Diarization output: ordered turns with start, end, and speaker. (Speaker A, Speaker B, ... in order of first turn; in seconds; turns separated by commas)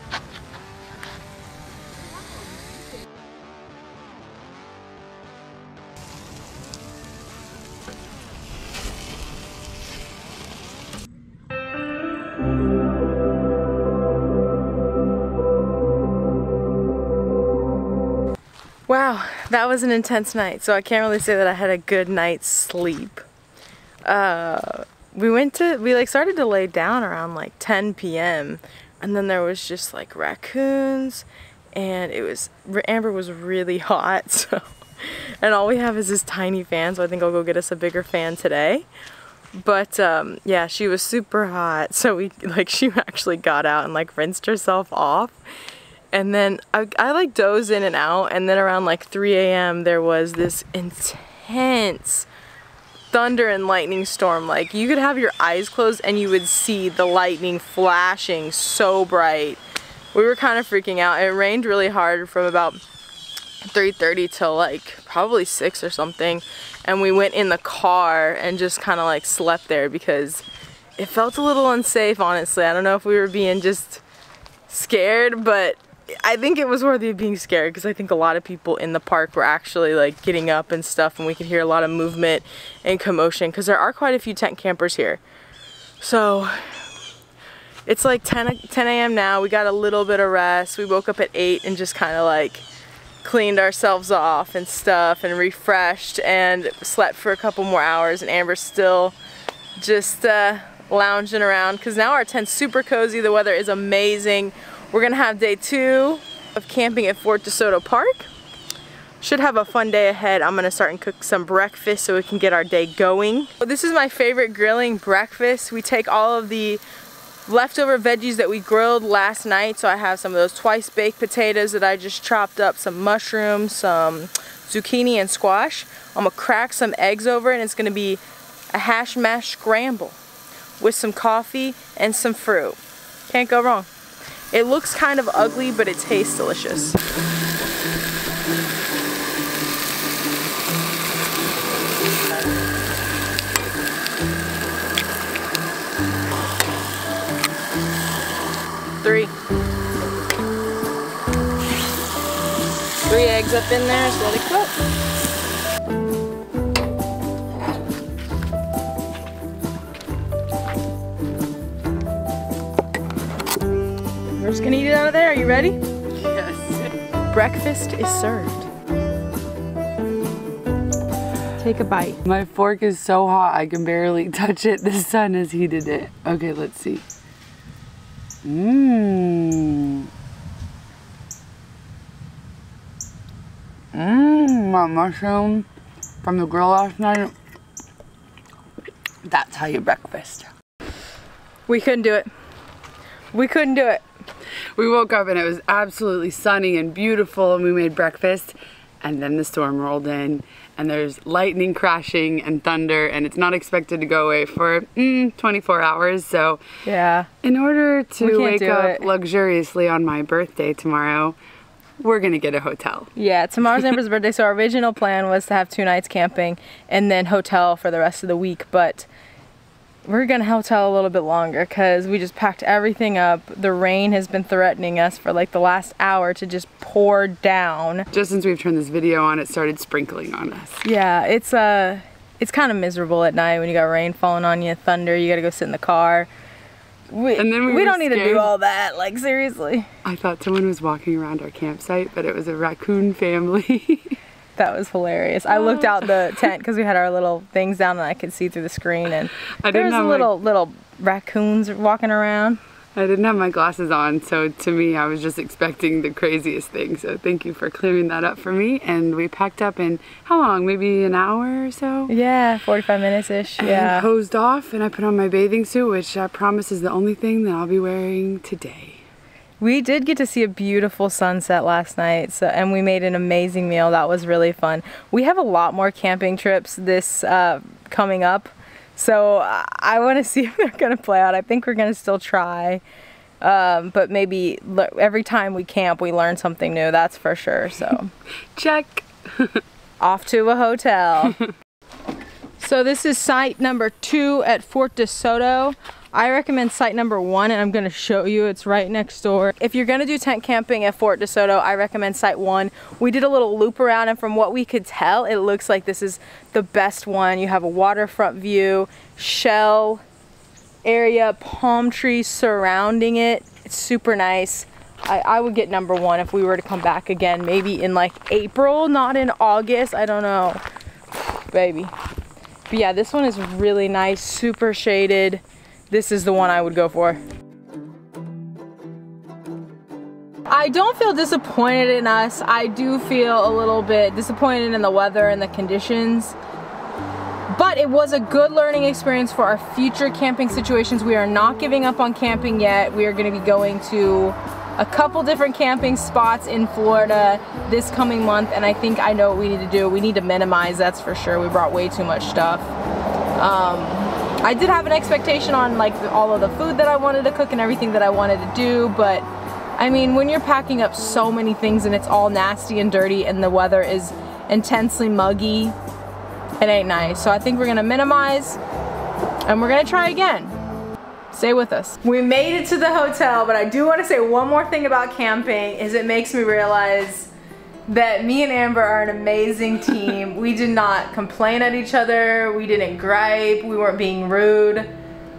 Speaker A: 18.9-23.2, Speaker A: 24.1-38.9, Speaker A: 39.5-45.4, Speaker A: 46.1-52.3, Speaker A: 53.1-59.6, Speaker A: 60.1-62.8, Speaker A: 63.6-70.4, Speaker A: 71.0-74.0, Speaker A: 74.7-85.2, Speaker A: 86.0-86.9, Speaker A: 87.9-92.7, Speaker A: 93.2-99.1, Speaker A: 99.8-108.3, Speaker A: 109.2-116.8, Speaker A: 117.5-130.2, Speaker A: 130.8-132.8, Speaker A: 133.3-133.9, Speaker A: 134.5-137.0, Speaker A: 149.0-149.3, Speaker A: 153.1-154.7, Speaker A: 164.4-165.8, Speaker B: 166.1-167.0, Speaker A: 167.3-168.7, Speaker A: 171.6-172.2, Speaker B: 172.2-177.0, Speaker B: 178.4-180.1, Speaker B: 183.9-185.7, Speaker B: 186.2-187.3, Speaker B: 189.2-190.5, Speaker A: 191.7-192.3, Speaker A: 193.3-194.0, Speaker B: 194.8-206.6, Speaker A: 206.8-207.3, Speaker B: 207.4-211.4, Speaker A: 208.2-209.1, Speaker B: 212.0-213.1, Speaker A: 213.2-219.1, Speaker A: 220.1-228.1, Speaker B: 228.1-230.8, Speaker A: 230.8-236.3, Speaker A: 237.1-239.9, Speaker B: 237.4-238.5, Speaker B: 240.0-244.2, Speaker A: 244.6-252.6, Speaker B: 245.5-246.5, Speaker B: 249.6-250.3, Speaker B: 252.9-262.1, Speaker A: 262.1-264.1, Speaker B: 263.6-269.0, Speaker A: 269.6-282.8, Speaker A: 283.4-288.1, Speaker B: 288.5-289.6, Speaker A: 290.0-291.4, Speaker A: 292.6-310.0, Speaker A: 310.8-320.6, Speaker A: 321.2-321.9, Speaker A: 322.7-327.2, Speaker A: 330.5-336.4, Speaker A: 337.5-352.7, Speaker A: 353.4-359.2, Speaker A: 359.8-365.8, Speaker A: 366.6-368.6, Speaker A: 369.5-370.6, Speaker A: 371.3-377.3, Speaker A: 377.9-384.9